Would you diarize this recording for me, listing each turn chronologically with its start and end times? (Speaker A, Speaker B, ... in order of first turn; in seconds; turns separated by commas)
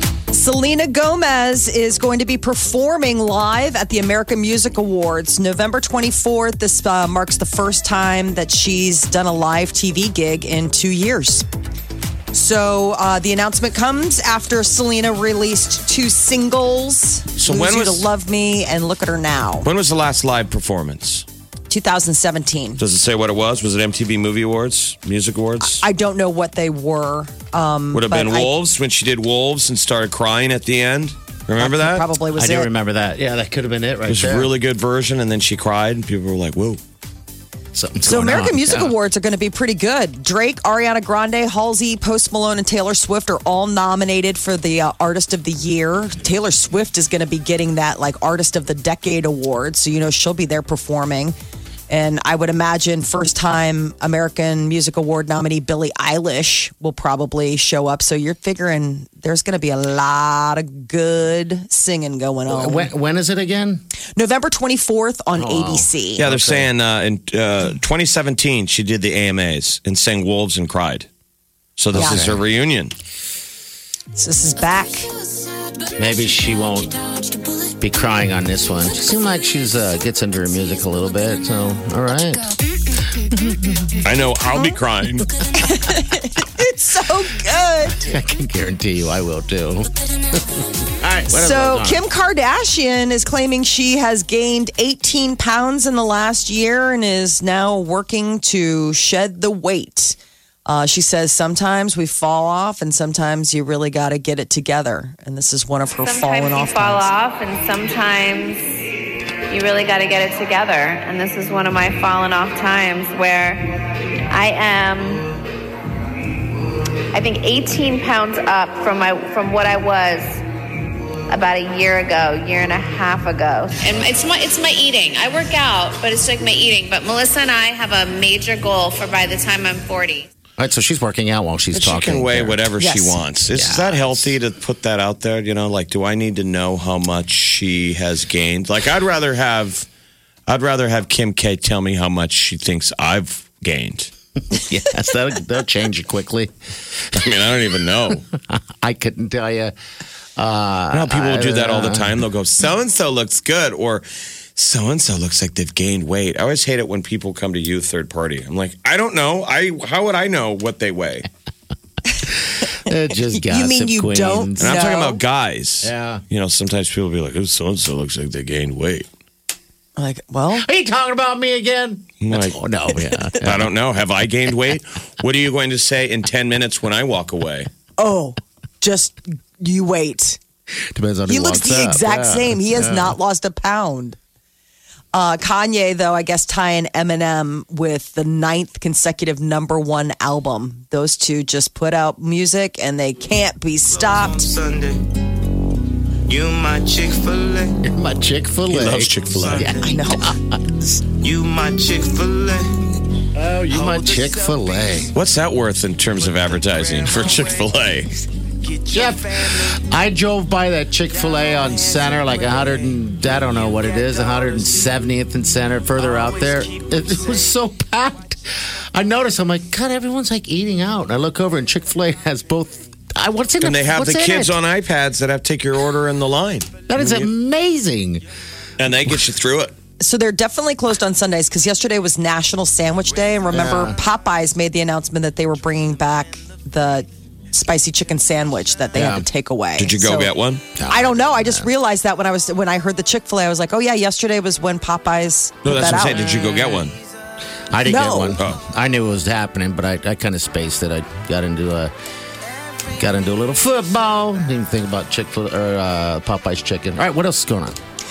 Speaker A: 0.3-11.5, Speaker A: 12.3-19.7, Speaker B: 17.4-18.1, Speaker B: 19.6-21.3, Speaker A: 21.7-22.8, Speaker B: 22.8-25.9, Speaker A: 25.6-28.5, Speaker B: 27.9-32.1, Speaker A: 31.6-32.7, Speaker C: 32.4-34.5, Speaker B: 34.1-36.8, Speaker C: 37.7-38.9, Speaker A: 38.0-51.4, Speaker A: 51.9-62.9, Speaker C: 62.5-63.8, Speaker A: 64.2-66.2, Speaker C: 65.3-66.7, Speaker B: 66.2-71.1, Speaker B: 71.8-72.9, Speaker C: 71.9-72.4, Speaker A: 71.9-72.3, Speaker A: 74.1-75.1, Speaker C: 76.0-77.0, Speaker C: 77.8-82.5, Speaker C: 83.3-83.9, Speaker B: 84.0-85.3, Speaker A: 85.6-88.1, Speaker C: 88.0-92.0, Speaker A: 91.3-107.1, Speaker D: 106.0-108.7, Speaker D: 109.5-115.3, Speaker D: 117.1-120.4, Speaker D: 121.3-130.3, Speaker C: 130.6-132.6, Speaker B: 131.8-139.9, Speaker A: 132.8-133.2, Speaker C: 133.5-134.3, Speaker B: 140.5-144.1, Speaker C: 144.5-146.5, Speaker B: 147.1-148.2, Speaker C: 148.3-149.7, Speaker C: 150.4-152.1, Speaker B: 150.9-161.3, Speaker C: 162.8-164.8, Speaker A: 163.3-165.2, Speaker B: 164.6-169.1, Speaker C: 165.8-166.2, Speaker A: 170.0-170.7, Speaker C: 170.6-173.7, Speaker B: 172.2-172.6, Speaker B: 173.4-177.7, Speaker A: 178.0-180.4, Speaker C: 180.9-183.2, Speaker A: 181.3-184.2, Speaker A: 185.1-194.5, Speaker E: 193.9-195.1, Speaker E: 196.3-197.8, Speaker C: 197.8-201.0, Speaker B: 198.7-199.7, Speaker E: 199.3-199.8, Speaker A: 199.7-200.4, Speaker E: 201.2-202.8, Speaker C: 203.3-205.1, Speaker E: 203.7-205.1, Speaker B: 205.1-208.2, Speaker E: 206.2-207.7, Speaker E: 208.6-209.7, Speaker C: 208.9-218.4, Speaker E: 211.2-212.9, Speaker E: 213.5-214.9, Speaker E: 216.0-217.5, Speaker C: 218.9-224.6, Speaker B: 223.6-227.3, Speaker C: 226.9-228.2, Speaker B: 228.8-229.8, Speaker A: 230.0-240.3, Speaker C: 233.5-234.0, Speaker C: 238.9-239.3, Speaker B: 239.8-240.7, Speaker C: 240.8-241.7, Speaker A: 240.9-246.3, Speaker B: 245.6-247.0, Speaker C: 247.7-251.9, Speaker A: 247.8-248.4, Speaker C: 252.9-257.8